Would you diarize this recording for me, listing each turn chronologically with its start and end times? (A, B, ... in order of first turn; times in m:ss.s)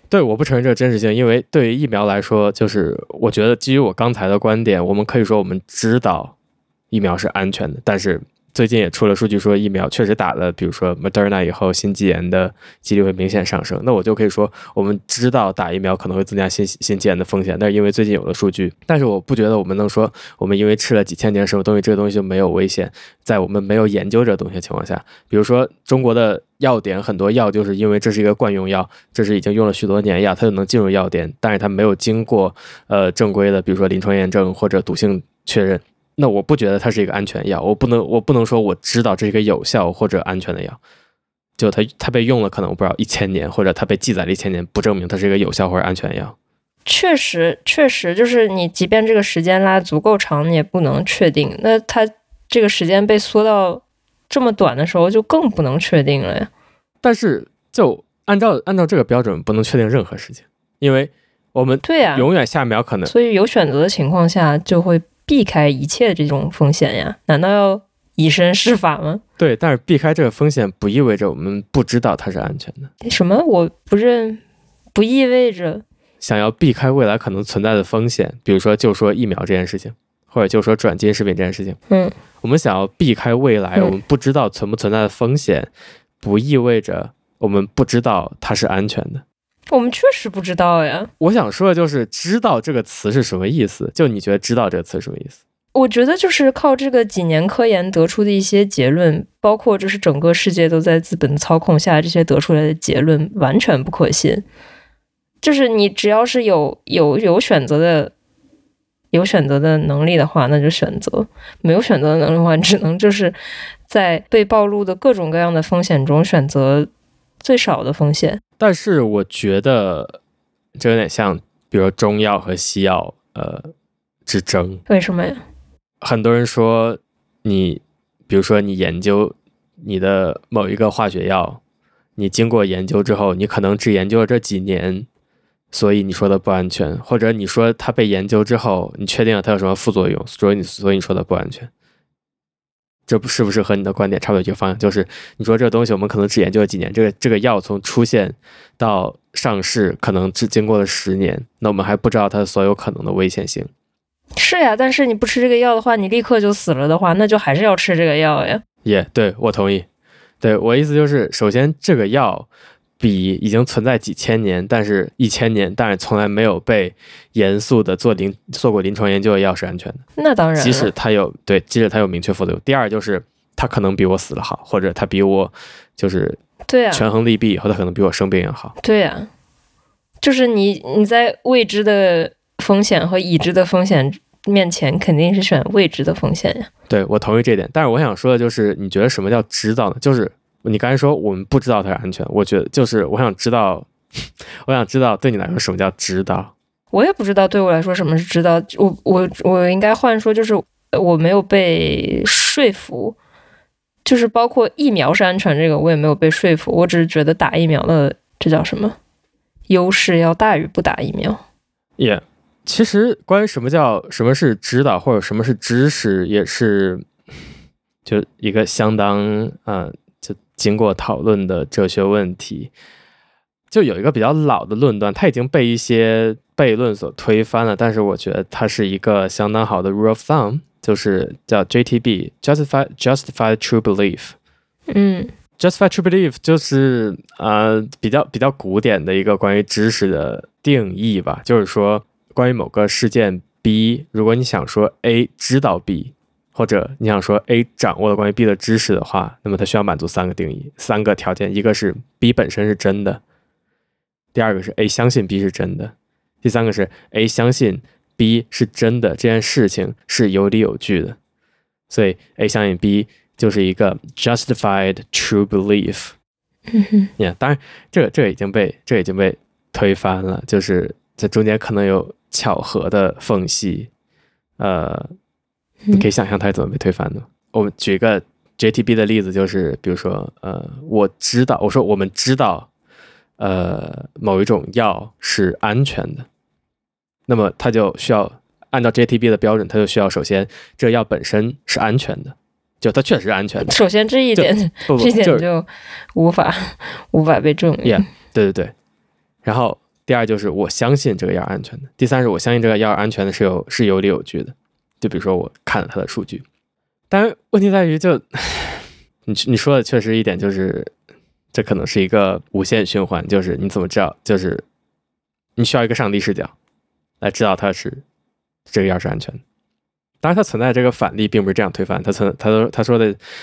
0:00.1-0:06.4 A
0:06.9-0:40.8 A
0:41.6-0:46.4 A
0:46.9-0:56.5 B
0:57.0-1:03.1 A
1:01.8-1:02.3 B
1:03.1-1:09.2 B
1:09.4-1:12.9 A
1:13.0-1:14.4 B
1:14.9-1:15.8 B
1:16.2-1:21.8 A
1:22.4-1:29.2 A
1:29.7-1:31.1 B
1:31.2-1:35.4 A
1:35.7-1:44.4 B
1:45.4-1:48.1 B
1:49.1-1:53.4 B
1:53.9-1:56.9 B
1:57.4-1:58.4 B
1:58.6-2:00.2 A
2:00.8-2:03.7 A
2:04.3-2:04.8 A
2:04.9-2:05.4 B
2:06.0-2:11.6 A
2:12.2-2:15.1 A
2:15.7-2:21.7 A
2:23.1-2:33.7 A
2:34.4-2:38.6 B
2:38.8-2:39.9 A
2:40.4-2:42.5 A
2:43.0-2:50.0 A
2:50.2-2:50.9 B
2:50.6-2:56.4 A
2:56.7-2:57.1 B
2:56.9-2:58.7 A
2:58.8-2:59.3 B
3:00.2-3:06.7 B
3:06.9-3:13.9 A
3:14.6-3:16.5 A
3:16.9-3:23.2 B
3:24.0-3:29.0 B
3:29.7-3:31.4 B
3:32.0-3:37.1 A
3:38.0-3:42.7 A
3:43.7-3:54.4 A
3:54.9-3:55.3 B
3:55.6-4:13.2 A
4:14.3-4:21.2 A
4:21.9-4:26.1 A
4:26.7-4:27.1 B
4:27.2-4:33.9 A
4:34.6-4:35.1 A
4:35.9-4:42.7 A
4:43.4-4:46.3 A
4:47.3-4:53.8 A
4:53.6-4:58.0 B
4:54.4-4:55.4 A
4:57.8-4:58.7 A
4:59.4-5:06.4 A
5:07.1-5:10.9 A
5:11.5-5:14.6 A
5:15.6-5:16.5 A
5:17.2-5:18.0 A
5:18.7-5:19.4 A
5:20.2-5:23.2 A